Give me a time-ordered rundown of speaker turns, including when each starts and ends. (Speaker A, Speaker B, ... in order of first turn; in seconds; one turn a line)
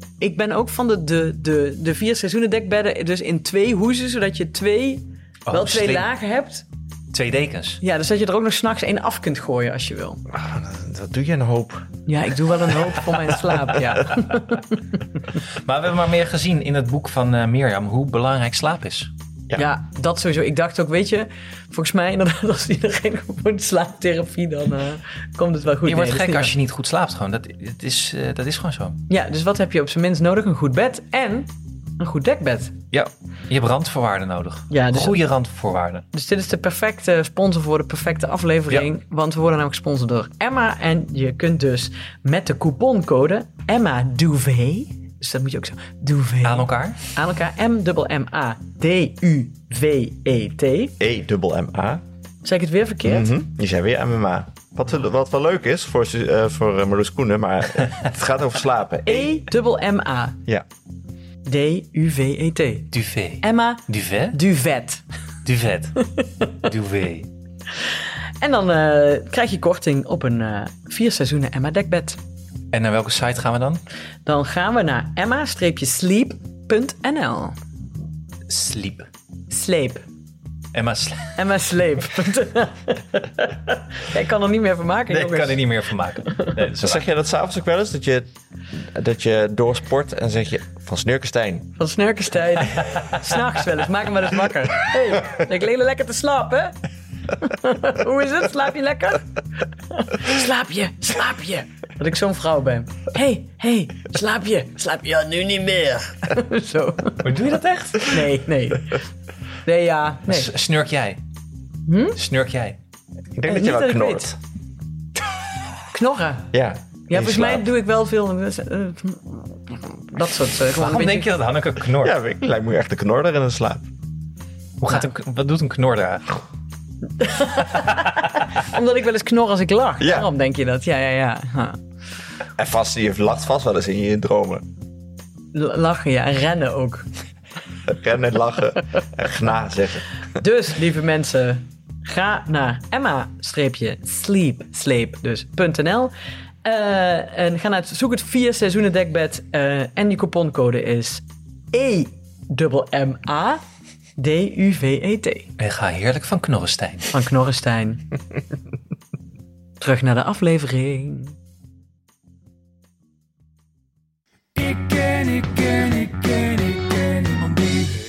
Speaker A: 0.2-6.6
Speaker B: 5.5-6.0
Speaker B: 7.1-7.8
Speaker A: 7.8-10.2
Speaker C: 10.3-12.0
Speaker A: 12.1-15.0
Speaker B: 15.5-19.1
Speaker A: 19.6-26.5
Speaker B: 25.9-29.0
Speaker A: 29.1-32.8
Speaker B: 32.9-36.0
Speaker A: 34.7-35.2
Speaker A: 36.1-50.9
Speaker B: 46.4-47.0
Speaker C: 51.0-52.0
Speaker A: 52.4-53.3
Speaker C: 53.0-59.3
Speaker A: 59.0-60.4
Speaker A: 61.4-65.0
Speaker B: 62.9-64.4
Speaker B: 65.4-67.3
Speaker A: 68.4-72.2
Speaker B: 72.7-73.8
Speaker A: 74.2-77.5
Speaker B: 78.5-79.1
Speaker A: 79.5-80.0
Speaker B: 80.7-81.5
Speaker A: 81.3-86.5
Speaker B: 85.1-87.0
Speaker C: 86.8-91.7
Speaker A: 91.8-96.7
Speaker A: 97.3-107.3
Speaker B: 107.2-108.3
Speaker A: 108.0-109.0
Speaker A: 109.6-110.5
Speaker B: 110.3-111.2
Speaker A: 111.9-112.2
Speaker B: 112.1-112.8
Speaker C: 113.3-114.3
Speaker A: 113.5-114.3
Speaker A: 115.9-116.5
Speaker C: 116.5-117.7
Speaker A: 117.1-121.3
Speaker B: 120.8-122.2
Speaker C: 122.0-123.9
Speaker B: 124.8-126.4
Speaker A: 127.2-131.8
Speaker C: 130.0-130.3
Speaker C: 132.6-134.6
Speaker A: 135.5-137.1
Speaker C: 137.8-140.2
Speaker A: 140.4-146.1
Speaker A: 146.6-153.6
Speaker A: 154.2-155.5
Speaker B: 155.6-157.1
Speaker A: 157.1-158.1
Speaker A: 159.8-161.3
Speaker A: 164.6-166.5